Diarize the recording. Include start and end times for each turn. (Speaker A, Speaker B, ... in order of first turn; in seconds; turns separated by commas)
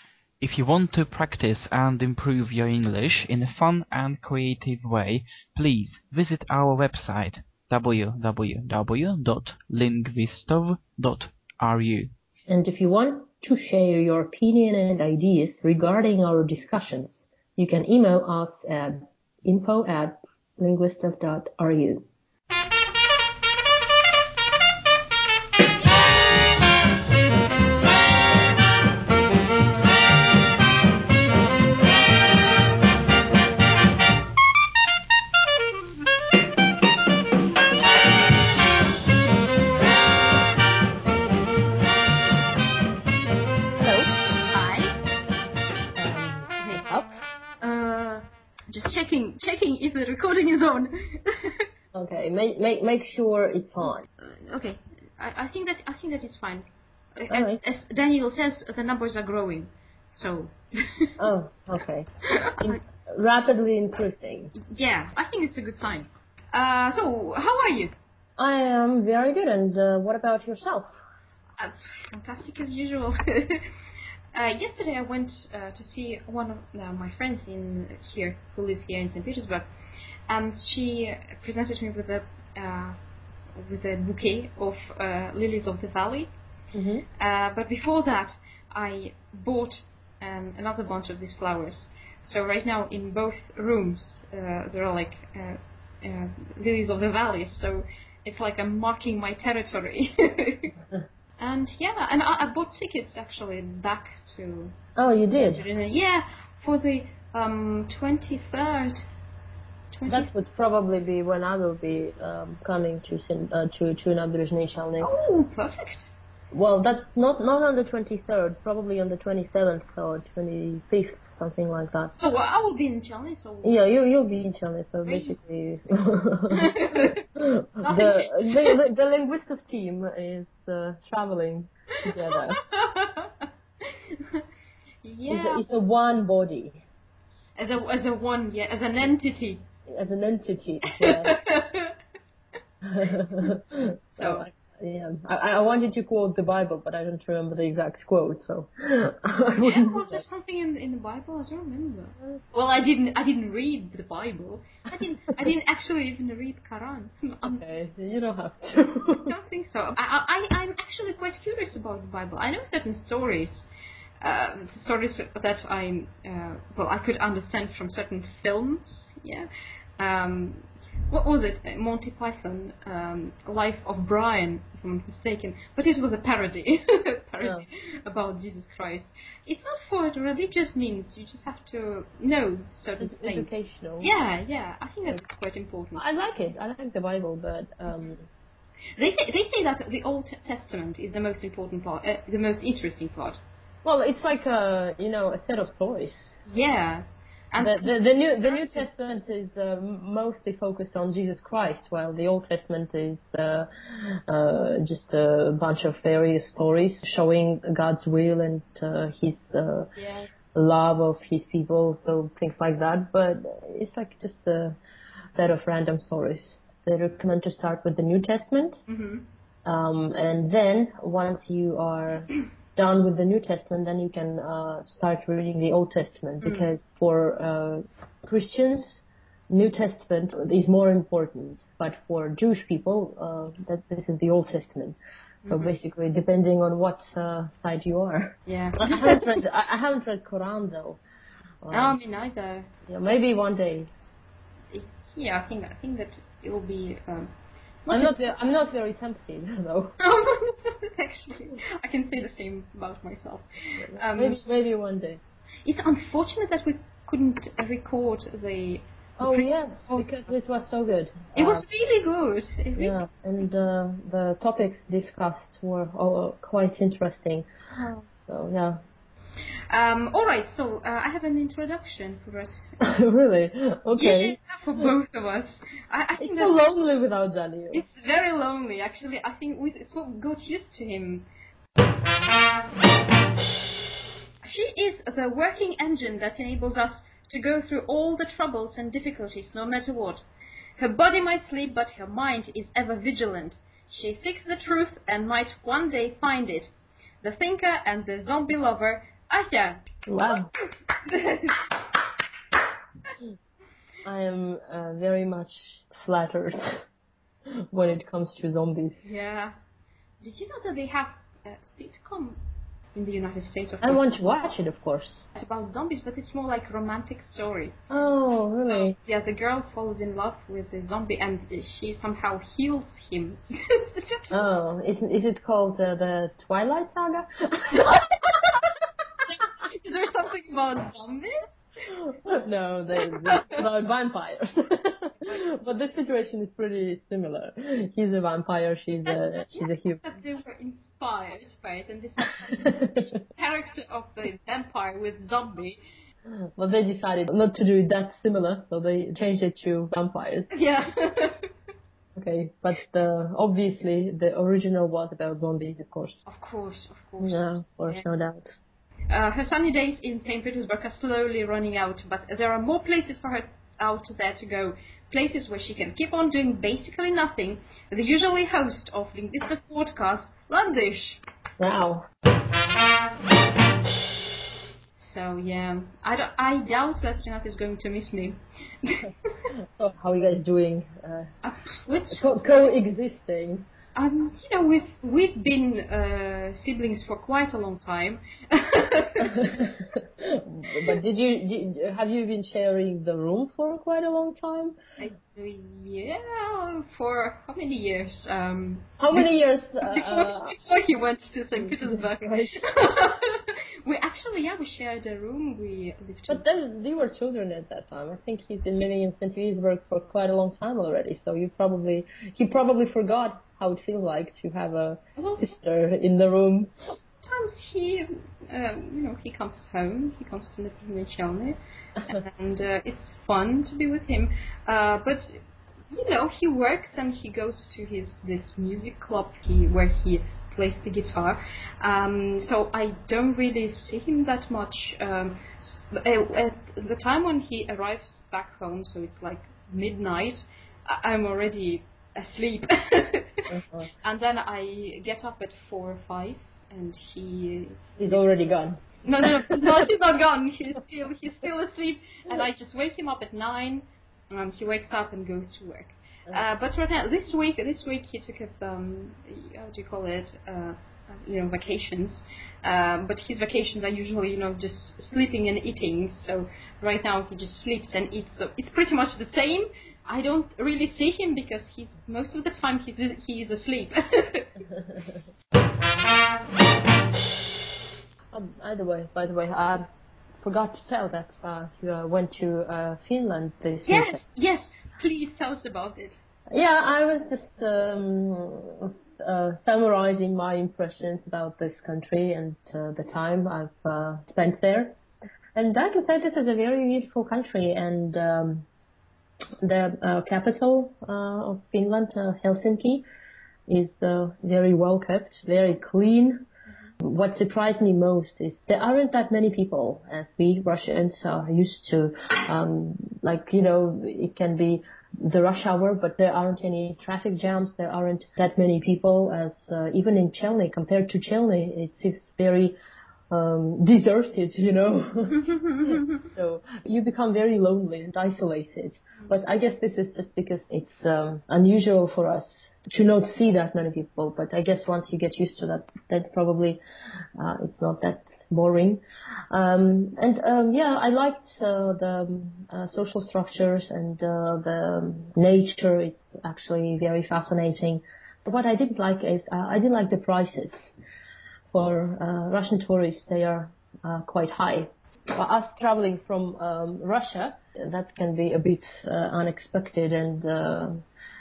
Speaker A: 0.4-12.1, Speaker B: 12.5-22.1, Speaker C: 43.9-45.0, Speaker B: 46.0-47.1, Speaker C: 47.6-51.6, Speaker B: 51.9-54.1, Speaker C: 54.2-61.1, Speaker B: 57.3-57.6, Speaker B: 61.2-62.1, Speaker C: 62.3-62.8, Speaker B: 62.6-64.5, Speaker C: 64.5-67.9, Speaker B: 68.4-70.9, Speaker C: 71.6-73.7, Speaker C: 74.3-79.7, Speaker C: 80.3-83.0, Speaker C: 83.5-86.3, Speaker B: 86.7-87.0, Speaker C: 87.2-100.7, Speaker C: 101.4-104.8, Speaker B: 105.0-105.6, Speaker C: 105.4-109.1, Speaker C: 109.9-110.3, Speaker B: 110.1-115.1, Speaker C: 115.0-116.1, Speaker B: 116.5-122.2, Speaker C: 122.2-123.8, Speaker B: 123.6-132.6, Speaker C: 125.1-125.4, Speaker C: 126.5-127.3, Speaker C: 127.8-128.8, Speaker C: 132.1-133.3, Speaker C: 133.9-134.4, Speaker C: 135.0-135.7, Speaker B: 135.3-136.8, Speaker C: 137.6-139.6, Speaker B: 139.9-141.4, Speaker C: 141.0-141.9, Speaker B: 142.8-150.2, Speaker C: 144.2-144.5, Speaker C: 149.6-157.6, Speaker B: 157.4-159.3, Speaker C: 159.3-163.7, Speaker C: 164.2-186.1, Speaker B: 183.0-184.1, Speaker B: 186.0-188.3, Speaker C: 189.0-193.4, Speaker B: 193.8-196.3, Speaker C: 196.5-198.9, Speaker B: 197.6-209.9, Speaker C: 210.0-210.3, Speaker B: 210.5-214.8, Speaker B: 215.3-218.8, Speaker C: 218.9-219.2, Speaker B: 219.7-235.0, Speaker C: 226.4-226.7, Speaker C: 235.4-235.7, Speaker B: 235.5-241.0, Speaker C: 238.5-239.4, Speaker B: 241.6-242.0, Speaker C: 241.7-242.7, Speaker B: 242.9-243.9, Speaker C: 244.7-247.3, Speaker C: 247.9-248.2, Speaker B: 247.9-250.0, Speaker C: 250.0-254.4, Speaker B: 253.8-255.2, Speaker C: 255.7-260.1, Speaker B: 259.2-261.6, Speaker C: 261.4-263.0, Speaker B: 262.8-267.5, Speaker C: 267.8-268.1, Speaker B: 268.3-268.8, Speaker C: 269.7-272.8, Speaker B: 272.8-274.9, Speaker C: 273.9-276.6, Speaker B: 276.2-277.8, Speaker C: 277.7-281.3, Speaker C: 284.4-290.2, Speaker C: 290.8-296.7, Speaker C: 297.2-300.3, Speaker B: 300.1-300.5, Speaker C: 301.0-301.7, Speaker B: 304.1-306.8, Speaker B: 307.5-309.1, Speaker C: 309.0-309.6, Speaker C: 310.2-312.4, Speaker C: 312.9-314.1, Speaker B: 313.8-315.2, Speaker C: 315.4-317.8, Speaker B: 317.9-319.0, Speaker C: 318.7-324.4, Speaker B: 324.3-328.4, Speaker C: 327.9-328.7, Speaker C: 329.3-331.5, Speaker B: 331.9-340.0, Speaker C: 333.0-333.6, Speaker C: 339.1-345.8, Speaker B: 342.7-343.1, Speaker B: 346.3-350.5, Speaker C: 350.5-351.4, Speaker B: 352.2-356.2, Speaker C: 356.3-358.0, Speaker B: 357.2-358.6, Speaker C: 359.1-371.2, Speaker B: 371.6-372.1, Speaker C: 375.0-379.1, Speaker B: 379.5-381.3, Speaker C: 381.4-382.8, Speaker B: 382.1-383.7, Speaker C: 383.9-389.4, Speaker B: 389.2-394.8, Speaker C: 395.0-399.3, Speaker B: 399.0-400.6, Speaker C: 399.9-406.5, Speaker B: 401.6-402.6, Speaker B: 406.3-416.7, Speaker C: 415.2-415.5, Speaker C: 417.2-425.4, Speaker C: 425.9-443.5, Speaker B: 443.5-443.9, Speaker C: 444.0-448.0, Speaker B: 448.0-449.8, Speaker C: 449.0-474.6, Speaker B: 478.3-479.9, Speaker B: 480.4-484.2, Speaker C: 483.9-486.2, Speaker B: 486.5-495.0, Speaker B: 495.5-498.7, Speaker B: 499.6-503.1, Speaker B: 503.7-506.4, Speaker B: 507.0-522.8, Speaker B: 523.3-536.8, Speaker C: 525.3-526.3, Speaker B: 537.4-550.9, Speaker B: 551.7-561.0